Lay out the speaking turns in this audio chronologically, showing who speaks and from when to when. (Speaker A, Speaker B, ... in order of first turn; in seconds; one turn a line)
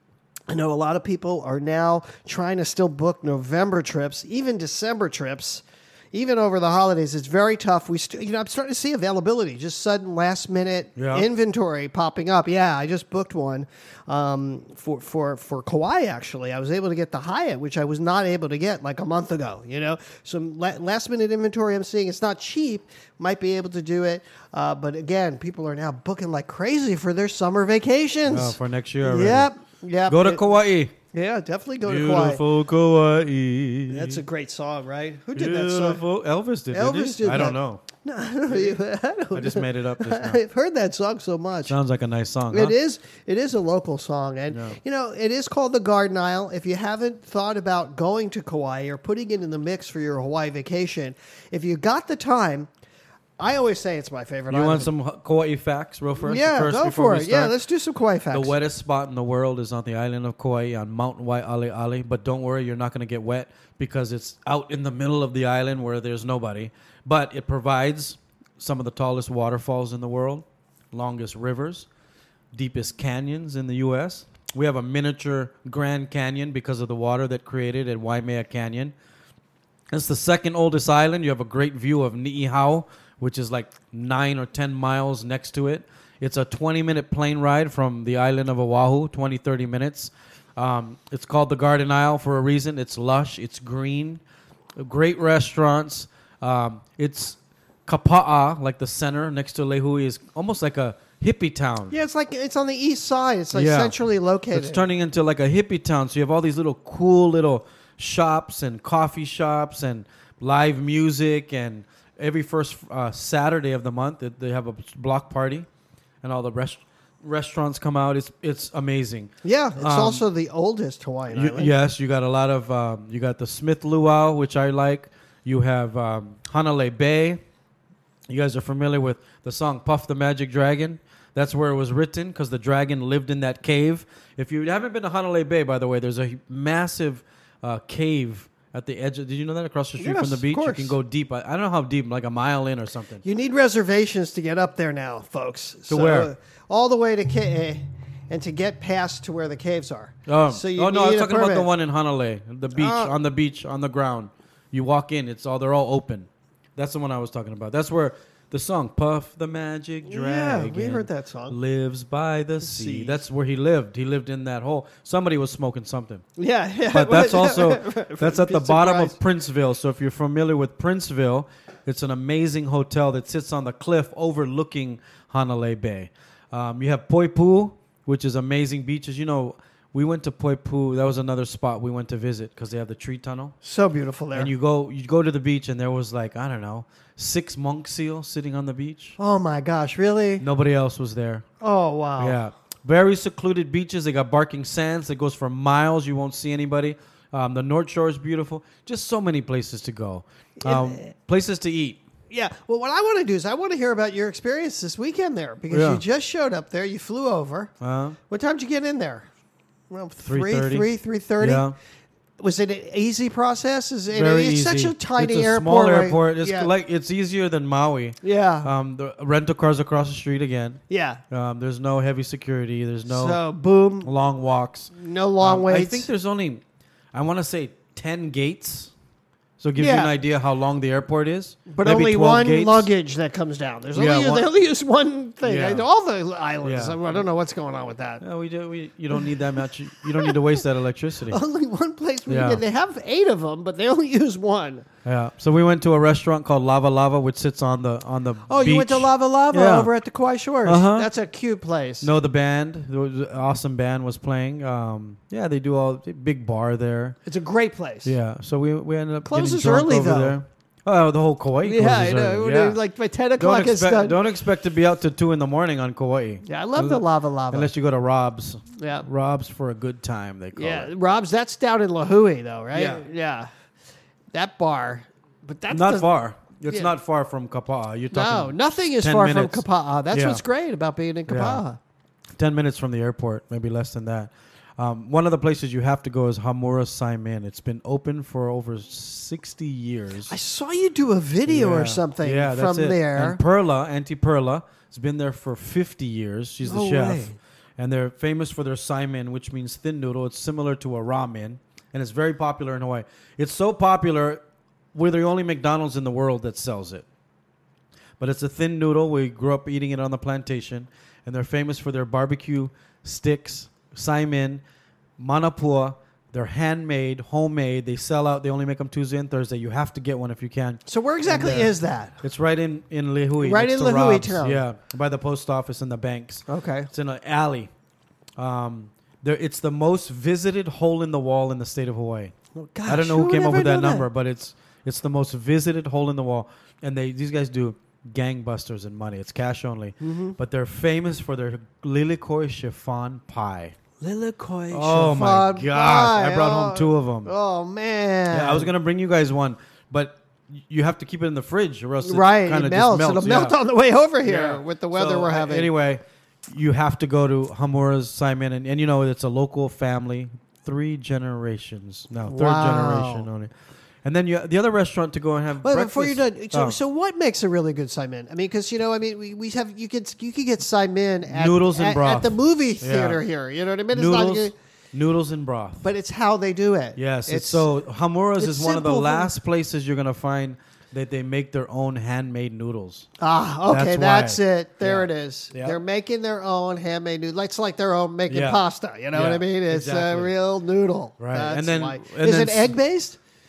Speaker A: 0.5-30.4
Speaker B: 10.9-11.3
Speaker B: 28.3-29.5
Speaker B: 30.1-30.9
Speaker A: 31.1-32.4
Speaker B: 31.8-34.2
Speaker A: 33.9-36.0
Speaker B: 35.3-37.8
Speaker A: 36.7-41.8
Speaker B: 38.5-38.8
Speaker B: 39.3-40.4
Speaker B: 41.6-42.8
Speaker A: 42.5-52.7
Speaker B: 44.5-44.8
Speaker A: 53.4-54.9
Speaker B: 54.5-57.5
Speaker A: 56.2-58.5
Speaker B: 58.3-71.9
Speaker B: 72.5-78.9
Speaker B: 79.9-94.2
Speaker B: 94.8-101.9
Speaker A: 101.9-104.9
Speaker B: 103.5-104.0
Speaker B: 104.5-115.7
Speaker B: 116.2-120.2
Speaker A: 119.4-121.7
Speaker B: 121.3-127.4
Speaker B: 128.3-143.2
Speaker A: 140.0-140.9
Speaker A: 143.2-151.7
Speaker B: 145.9-146.3
Speaker B: 150.2-166.2
Speaker A: 152.7-153.1
Speaker A: 160.0-161.6
Speaker A: 162.6-163.2
Speaker A: 166.4-169.2
Speaker B: 166.9-183.5
Speaker A: 183.6-184.5
Speaker B: 184.3-189.2
Speaker A: 189.2-190.4
Speaker B: 190.4-191.4
Speaker A: 191.6-192.4
Speaker B: 192.2-202.0
Speaker A: 200.6-201.1
Speaker A: 202.3-207.7
Speaker B: 205.7-206.0
Speaker B: 207.8-208.2
Speaker A: 208.3-209.3
Speaker A: 209.9-211.7
Speaker B: 210.2-210.9
Speaker B: 211.4-211.8
Speaker A: 212.4-216.7
Speaker B: 214.1-220.8
Speaker A: 218.2-218.7
Speaker A: 220.9-221.2
Speaker B: 221.3-223.4
Speaker A: 223.1-224.1
Speaker B: 224.0-226.6
Speaker A: 224.9-226.1
Speaker B: 227.1-228.9
Speaker B: 229.6-232.9
Speaker A: 229.8-230.1
Speaker A: 231.7-238.2
Speaker B: 233.9-234.5
Speaker B: 235.4-235.8
Speaker B: 236.6-237.2
Speaker B: 238.2-241.4
Speaker A: 239.1-239.5
Speaker A: 240.0-240.6
Speaker A: 241.3-244.8
Speaker B: 242.3-242.6
Speaker B: 245.0-249.9
Speaker A: 248.5-252.1
Speaker B: 250.6-251.1
Speaker B: 252.0-257.2
Speaker A: 257.2-258.1
Speaker B: 258.0-262.8
Speaker A: 259.2-260.4
Speaker A: 261.6-264.2
Speaker B: 263.4-270.9
Speaker A: 266.4-267.7
Speaker A: 268.8-269.1
Speaker A: 270.5-273.5
Speaker B: 272.7-273.0
Speaker A: 274.3-276.1
Speaker B: 275.7-280.4
Speaker A: 278.1-281.8
Speaker B: 281.3-281.6
Speaker B: 282.4-290.3
Speaker A: 290.3-293.4
Speaker B: 291.4-297.3
Speaker A: 296.6-297.4
Speaker B: 297.8-304.4
Speaker B: 304.9-307.0
Speaker B: 308.2-314.6
Speaker B: 315.2-327.7
Speaker A: 320.9-322.2
Speaker A: 323.4-324.6
Speaker A: 326.5-326.9
Speaker B: 328.4-332.3
Speaker A: 332.5-334.1
Speaker B: 332.9-343.7
Speaker A: 340.0-340.4
Speaker A: 344.0-348.7
Speaker B: 344.7-347.3
Speaker B: 348.3-353.6
Speaker A: 352.0-355.7
Speaker B: 354.2-363.5
Speaker A: 362.2-363.3
Speaker B: 364.0-366.8
Speaker A: 365.6-374.5
Speaker B: 371.3-373.2
Speaker B: 373.9-375.9
Speaker A: 375.8-377.7
Speaker B: 376.9-383.1
Speaker A: 378.4-379.3
Speaker A: 383.2-393.2
Speaker B: 383.7-385.8
Speaker B: 388.3-388.6
Speaker B: 389.1-390.3
Speaker B: 391.2-392.8